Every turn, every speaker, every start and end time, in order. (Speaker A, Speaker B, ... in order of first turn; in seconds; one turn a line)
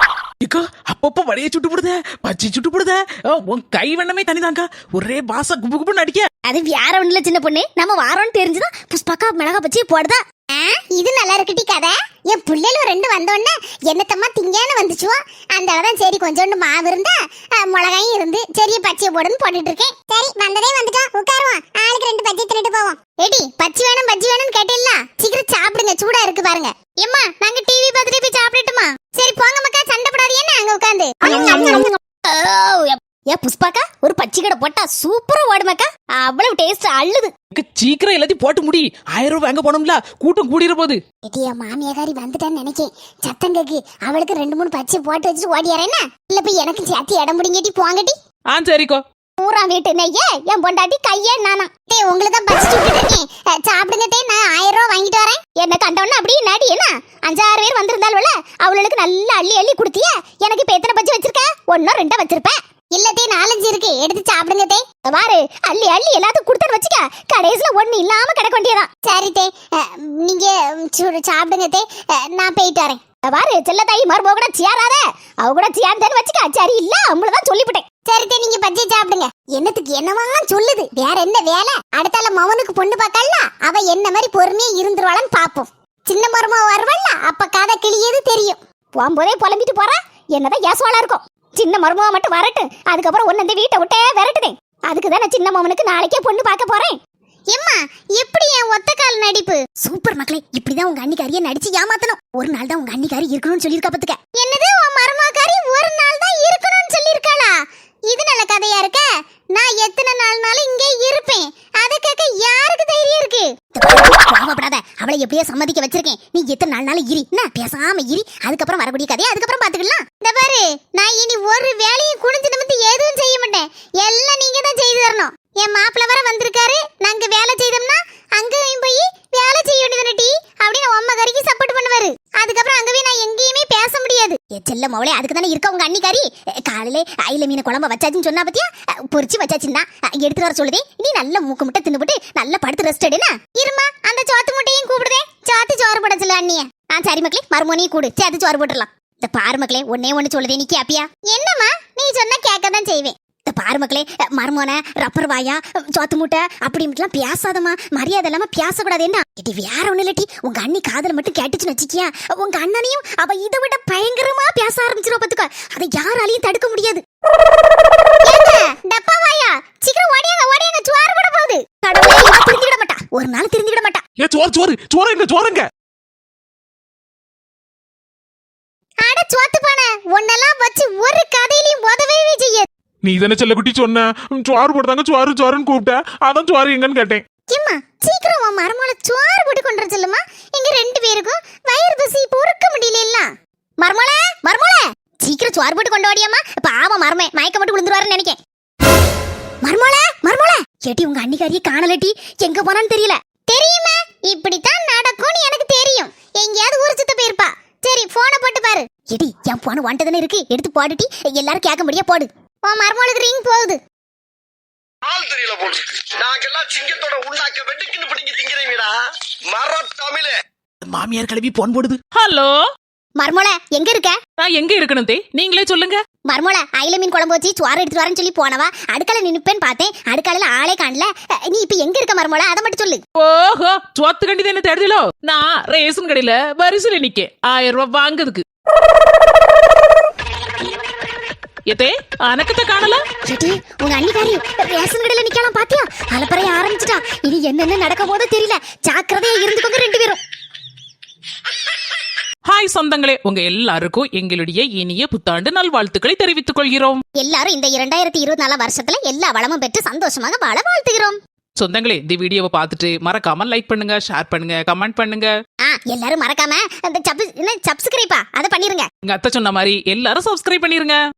Speaker A: 0.4-6.3
Speaker B: 6.5-37.3
Speaker A: 37.5-41.0
Speaker B: 41.3-48.1
Speaker A: 48.5-49.0
Speaker B: 49.4-97.0
Speaker B: 97.5-167.0
Speaker B: 168.2-174.0
Speaker C: 174.2-175.7
Speaker B: 179.0-182.7
Speaker C: 183.0-187.2
Speaker B: 187.5-193.3
Speaker B: 193.8-198.4
Speaker B: 199.6-213.8
Speaker D: 215.1-219.0
Speaker D: 219.5-220.4
Speaker A: 220.8-222.6
Speaker B: 223.2-224.2
Speaker A: 224.4-226.0
Speaker B: 226.3-233.0
Speaker A: 233.2-238.4
Speaker A: 241.7-243.0
Speaker B: 243.3-250.2
Speaker A: 252.5-257.0
Speaker B: 257.2-261.2
Speaker A: 261.6-265.3
Speaker B: 265.6-268.9
Speaker A: 269.0-271.0